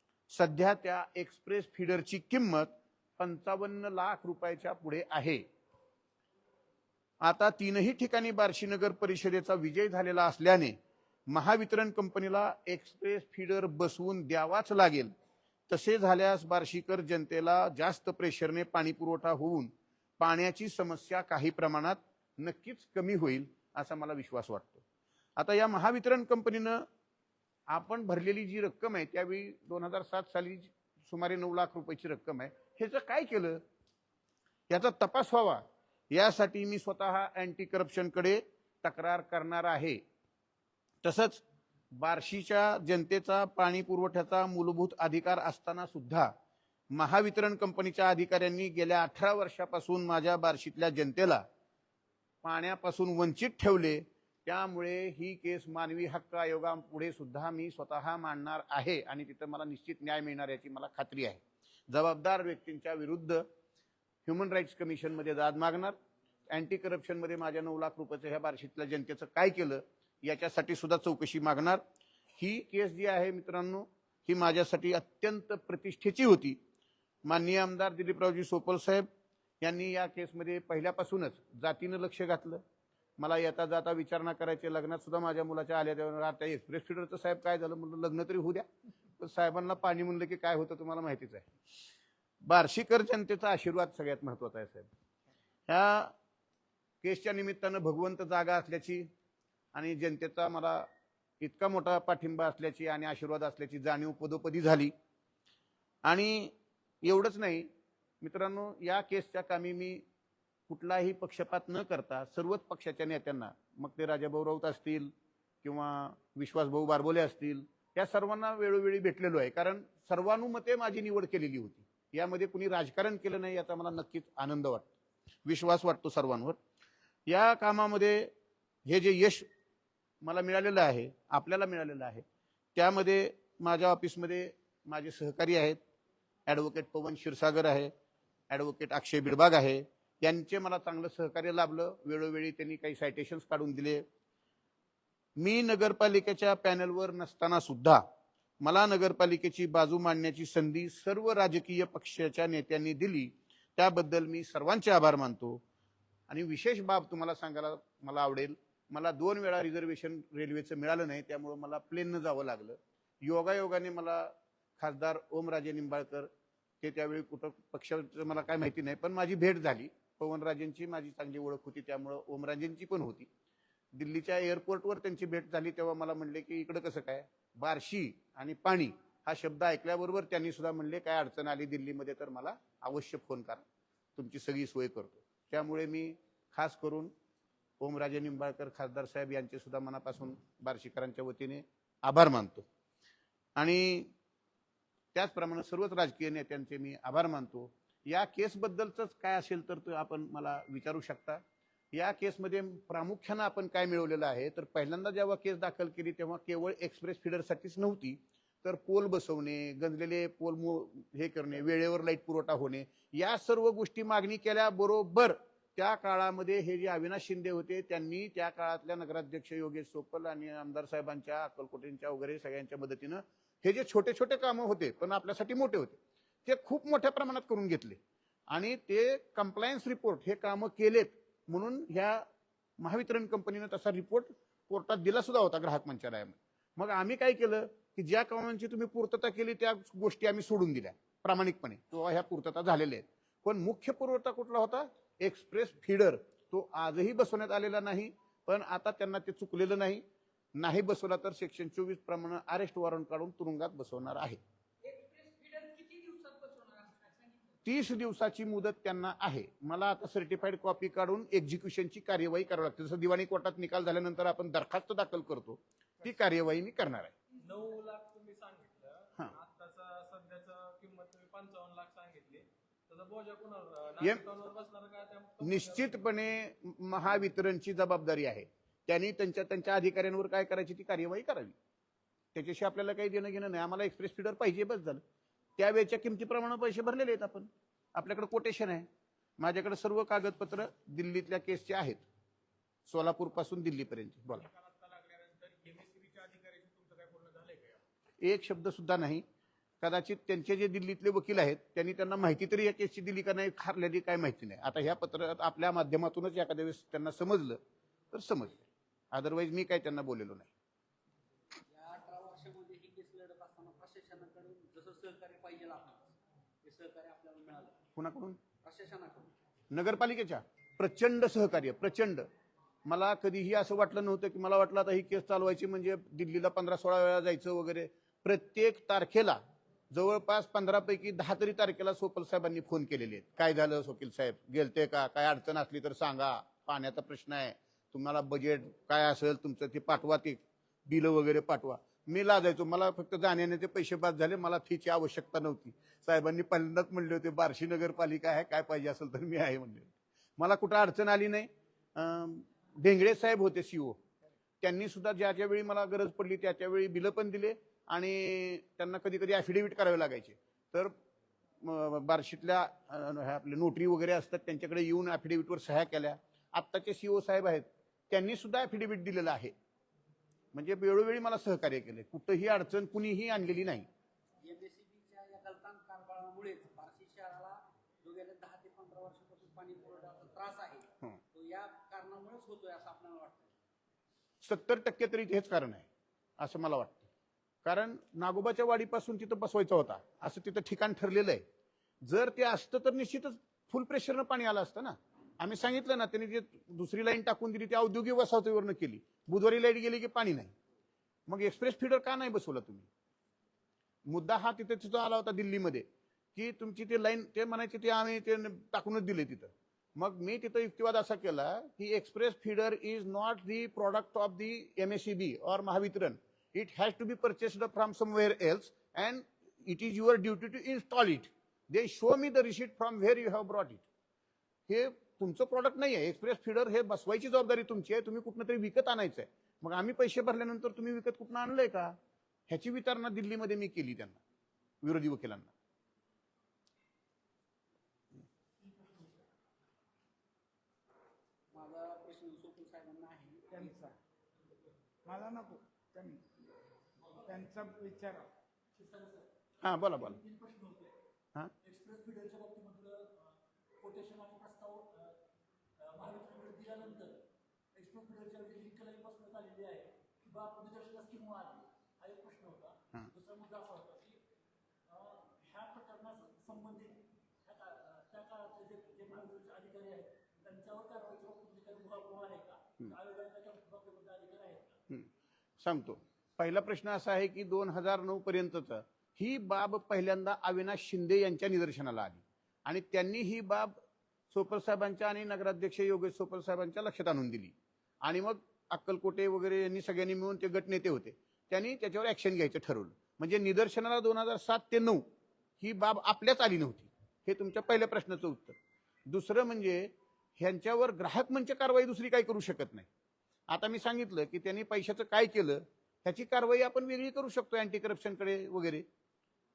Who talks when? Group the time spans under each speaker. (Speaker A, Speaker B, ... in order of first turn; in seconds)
Speaker A: 0.3-5.4, 7.2-10.7, 11.3-15.1, 15.7-24.8, 25.4-26.8, 27.7-33.6, 34.7-40.0, 41.0-41.4, 41.9-46.3, 46.9-51.4, 52.4-63.4, 64.3-65.9, 66.5-71.8, 72.4-76.6, 77.2-79.0, 79.6-82.6, 83.2-88.7, 89.2-91.5, 92.5-94.9, 95.7-96.1, 97.0-99.0, 99.7-100.9, 101.4-104.9, 106.0-107.7, 108.2-110.0, 110.7-115.1, 115.6-124.9, 125.5-126.6, 127.3-128.3, 128.8-129.5, 130.2-132.2, 132.8-135.8, 136.5-137.9, 138.5-144.0, 145.4-148.0, 148.6-155.6, 156.3-166.3, 166.8-173.3, 173.9-183.6, 184.2-187.1, 187.8-192.7, 193.6-194.1, 195.1-201.4, 201.9-228.0, 228.5-232.2, 232.8-250.0, 250.6-254.4, 257.6-267.1, 275.4-281.5, 282.3-285.0, 285.6-288.9, 289.4-292.0, 292.9-294.5, 298.2-299.2, 299.8-307.6, 308.1-310.5, 318.0-318.4, 319.7-322.3, 322.9-329.4, 329.9-354.0, 354.6-360.9, 361.6-369.5, 370.5-373.9, 384.4-385.9, 386.4-387.1, 387.6-391.4, 392.0-400.5, 401.3-402.9, 404.1-405.8, 406.4-423.9, 424.7-431.9, 432.5-434.2, 434.8-435.5, 449.6-450.2, 475.6-483.8, 484.3-495.0, 495.6-498.5, 499.1-502.9, 503.5-508.8
Speaker B: 255.2-257.1, 438.6-439.2, 447.2-447.4, 448.7-449.3, 449.9-450.9, 451.6-455.2, 455.8-457.2, 457.7-464.2, 464.9-474.8
Speaker C: 267.4-276.0, 294.5-296.6, 297.1-297.4
Speaker D: 311.7-317.8, 318.6-319.3, 374.4-383.5, 441.5-443.8
Speaker E: 443.5-443.9, 445.1-446.2, 447.2-448.3